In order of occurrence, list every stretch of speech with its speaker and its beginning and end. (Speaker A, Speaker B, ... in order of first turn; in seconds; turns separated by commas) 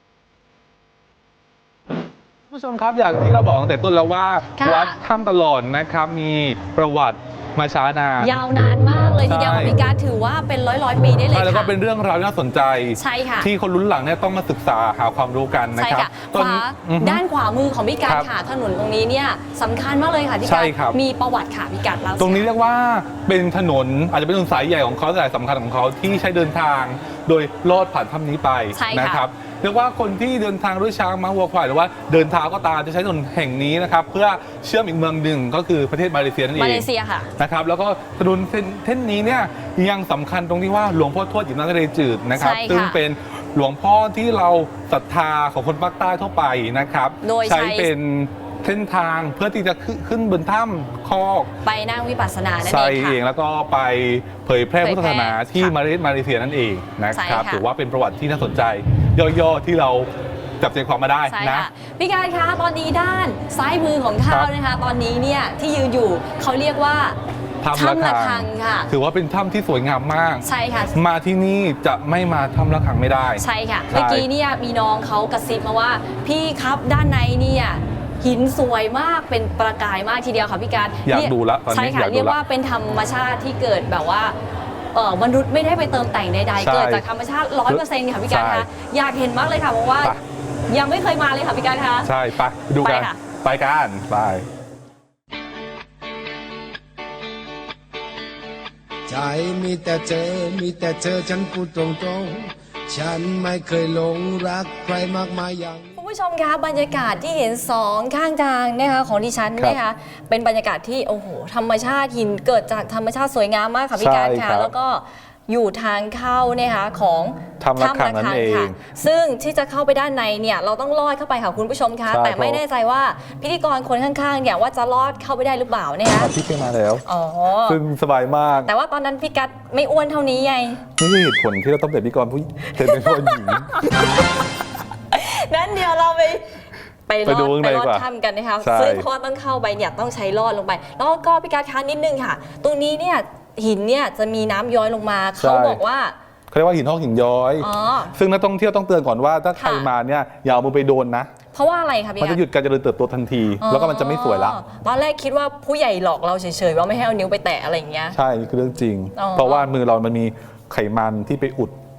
Speaker A: 2.5-8.4, Speaker B: 4.6-5.0, Speaker B: 8.2-11.7, Speaker A: 9.2-9.8, Speaker A: 11.3-17.2, Speaker B: 12.9-13.5, Speaker B: 15.8-22.5, Speaker A: 20.4-21.0, Speaker A: 22.2-51.5, Speaker B: 28.7-29.2, Speaker B: 36.5-37.3, Speaker B: 42.4-43.0, Speaker B: 47.2-47.9, Speaker B: 51.6-53.2, Speaker A: 52.6-61.7, Speaker B: 54.8-55.7, Speaker B: 57.1-57.6, Speaker B: 61.3-67.2, Speaker A: 67.6-74.3, Speaker B: 67.7-68.9, Speaker B: 70.4-71.0, Speaker B: 73.4-84.3, Speaker A: 81.0-82.4, Speaker B: 84.9-90.2, Speaker A: 86.6-87.0, Speaker A: 87.7-88.7, Speaker B: 90.7-92.1, Speaker A: 92.0-94.4, Speaker B: 92.8-93.2, Speaker C: 99.1-106.0, Speaker B: 106.0-126.3, Speaker A: 114.0-114.7, Speaker A: 117.6-118.8, Speaker A: 122.1-122.6, Speaker A: 126.1-127.0, Speaker B: 127.0-127.8, Speaker A: 127.7-128.7, Speaker B: 128.7-130.8, Speaker A: 131.0-133.8, Speaker B: 132.7-134.2, Speaker B: 135.1-136.4, Speaker B: 137.1-146.1, Speaker A: 137.2-138.1, Speaker A: 138.6-139.1, Speaker A: 145.4-145.8, Speaker A: 146.5-151.3, Speaker B: 147.6-148.1, Speaker B: 149.6-149.9, Speaker B: 151.5-152.4, Speaker A: 152.2-154.6, Speaker B: 153.6-158.2, Speaker A: 158.1-161.8, Speaker B: 159.2-159.7